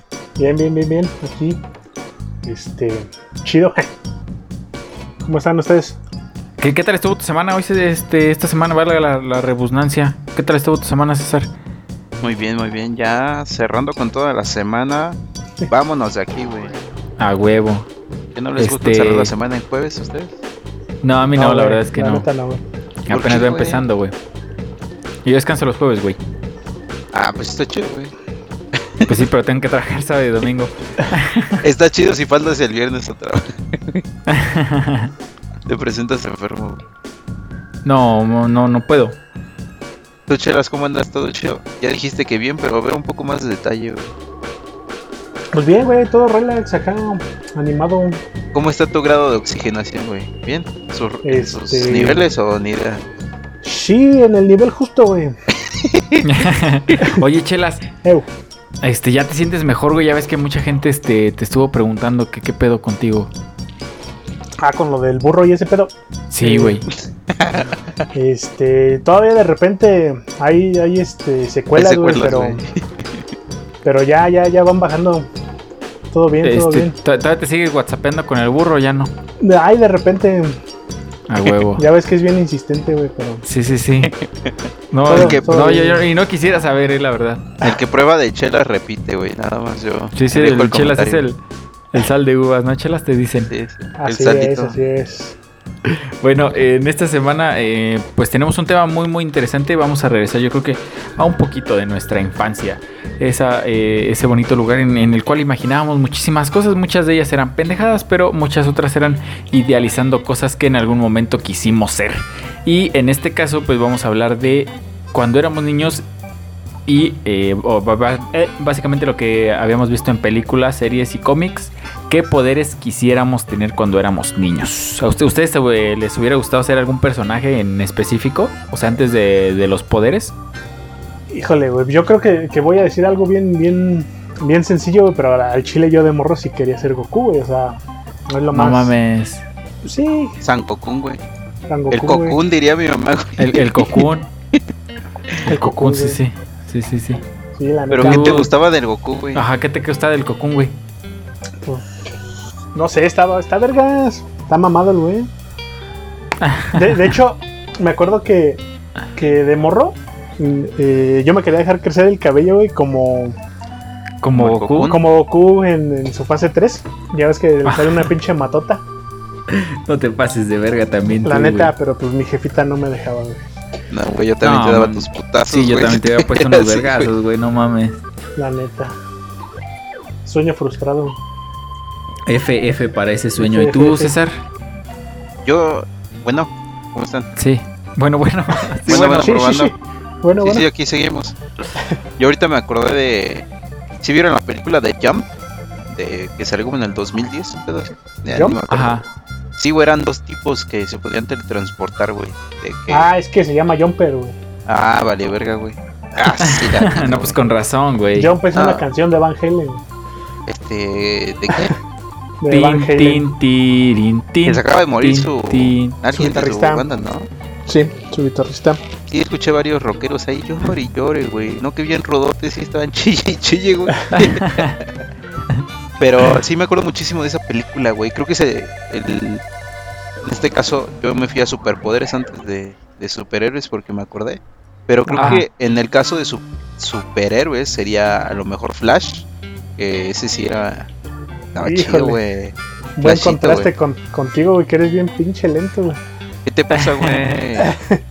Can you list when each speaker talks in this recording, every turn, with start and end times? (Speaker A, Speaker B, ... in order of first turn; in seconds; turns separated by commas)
Speaker A: 0.4-1.6, Speaker A: 2.4-3.9, Speaker A: 5.2-6.0, Speaker B: 6.6-11.5, Speaker C: 12.2-16.8, Speaker B: 17.2-17.9, Speaker C: 18.4-20.4, Speaker B: 18.6-19.3, Speaker B: 21.0-22.3, Speaker A: 21.4-22.6, Speaker B: 23.1-24.2, Speaker C: 23.1-23.8, Speaker B: 25.2-26.2, Speaker C: 27.1-28.1, Speaker C: 28.7-29.2, Speaker B: 29.1-31.6, Speaker C: 31.6-34.1, Speaker B: 34.3-35.1, Speaker C: 35.7-36.8, Speaker B: 37.8-39.2, Speaker C: 40.3-44.1, Speaker A: 45.5-48.2, Speaker C: 48.5-53.0, Speaker A: 51.2-52.2, Speaker A: 53.6-55.4, Speaker C: 55.7-56.3, Speaker B: 56.2-57.8, Speaker B: 58.8-63.3, Speaker A: 64.6-66.8, Speaker B: 66.3-66.9, Speaker C: 67.3-68.0, Speaker A: 68.1-72.6, Speaker C: 71.7-73.2, Speaker A: 73.8-75.3, Speaker A: 76.1-76.9, Speaker B: 76.4-79.1, Speaker A: 79.4-80.6, Speaker B: 81.3-81.9, Speaker A: 81.8-83.4, Speaker B: 83.4-84.2, Speaker C: 84.0-84.5, Speaker B: 84.9-87.5, Speaker C: 85.1-85.5, Speaker A: 85.1-86.0, Speaker C: 87.6-91.2, Speaker B: 90.2-91.4, Speaker B: 91.9-93.5, Speaker C: 93.5-94.8, Speaker A: 94.0-95.4, Speaker B: 95.8-116.0, Speaker B: 116.9-130.3, Speaker A: 131.3-137.8, Speaker A: 138.3-139.0, Speaker B: 138.5-139.4, Speaker A: 139.8-140.4, Speaker C: 140.4-141.2, Speaker A: 141.7-142.4, Speaker C: 141.9-144.6, Speaker B: 143.4-144.3, Speaker B: 145.5-147.2, Speaker A: 145.5-146.2, Speaker A: 147.6-148.5, Speaker C: 147.9-149.4, Speaker B: 148.0-148.5, Speaker B: 149.3-150.8, Speaker A: 151.6-151.9, Speaker A: 152.8-155.3, Speaker B: 156.4-157.0, Speaker A: 156.7-158.6, Speaker A: 159.2-163.4, Speaker B: 164.2-164.9, Speaker C: 164.3-165.0, Speaker A: 164.9-168.8, Speaker B: 167.7-168.1, Speaker B: 169.5-171.7, Speaker A: 171.2-173.4, Speaker C: 173.9-177.1, Speaker B: 174.4-178.0, Speaker A: 178.4-178.9, Speaker A: 180.2-181.2, Speaker B: 182.3-184.4, Speaker A: 183.4-184.1, Speaker C: 185.4-187.3, Speaker B: 187.4-189.5, Speaker C: 188.9-189.7, Speaker A: 189.1-190.7, Speaker C: 190.4-191.4, Speaker C: 192.2-193.5, Speaker C: 194.0-195.3, Speaker C: 195.9-199.0, Speaker A: 198.3-198.6, Speaker B: 198.7-199.1, Speaker C: 199.6-203.1, Speaker A: 202.9-204.4, Speaker C: 204.7-207.4, Speaker B: 206.4-208.3, Speaker A: 208.2-209.8, Speaker C: 208.5-208.8, Speaker C: 210.5-211.8, Speaker A: 212.4-213.2, Speaker B: 212.5-216.0, Speaker C: 214.4-217.3, Speaker A: 216.1-216.9, Speaker A: 217.7-218.8, Speaker C: 219.1-224.9, Speaker B: 224.1-224.8, Speaker C: 226.0-229.4, Speaker C: 230.2-240.9, Speaker A: 235.1-235.4, Speaker B: 235.2-235.5, Speaker C: 241.5-243.7, Speaker A: 241.6-242.2, Speaker A: 243.0-246.0, Speaker C: 246.5-247.7, Speaker B: 246.8-247.1, Speaker A: 247.6-248.0